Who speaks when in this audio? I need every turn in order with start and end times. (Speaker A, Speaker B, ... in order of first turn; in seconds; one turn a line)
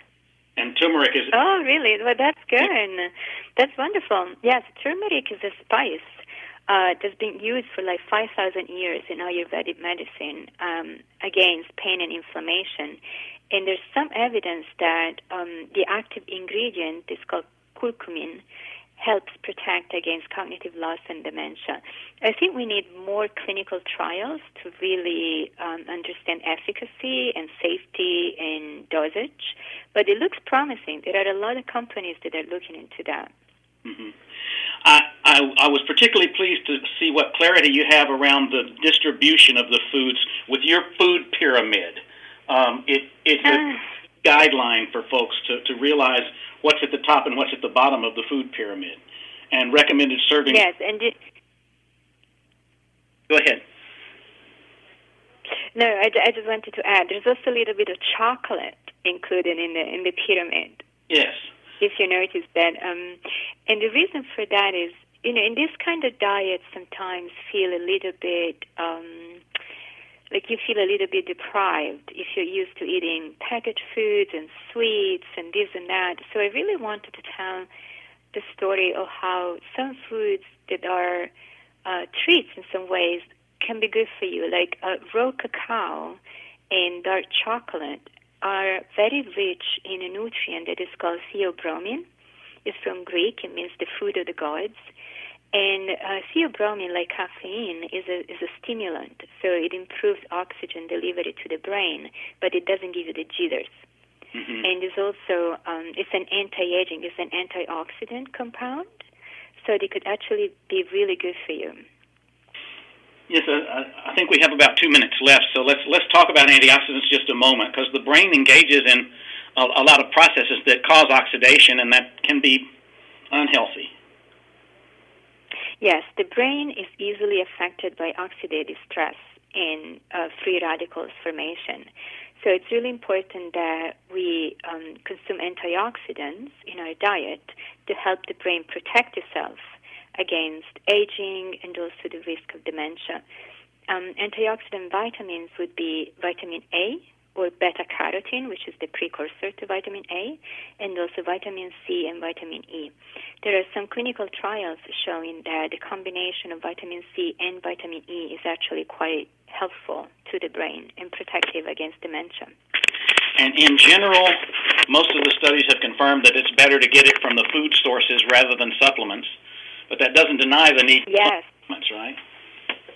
Speaker A: 0.6-1.3
Speaker B: 1.3-13.0
Speaker B: 13.5-18.4
Speaker B: 19.0-33.3
Speaker A: 33.9-34.1
Speaker A: 34.8-49.0
Speaker A: 49.5-50.6
Speaker B: 50.5-51.1
Speaker A: 53.3-53.6
Speaker B: 55.8-60.8
Speaker A: 61.1-61.5
Speaker B: 61.8-69.4
Speaker B: 70.3-77.7
Speaker B: 78.3-81.3
Speaker B: 81.8-92.1
Speaker B: 92.7-94.9
Speaker B: 95.5-103.8
Speaker A: 104.3-104.6
Speaker B: 104.6-109.0
Speaker B: 109.6-111.8
Speaker A: 113.3-122.7
Speaker A: 123.3-123.9
Speaker B: 125.8-131.9
Speaker B: 132.4-143.2
Speaker B: 143.9-162.6
Speaker A: 163.4-169.3
Speaker A: 169.9-172.2
Speaker B: 171.1-171.5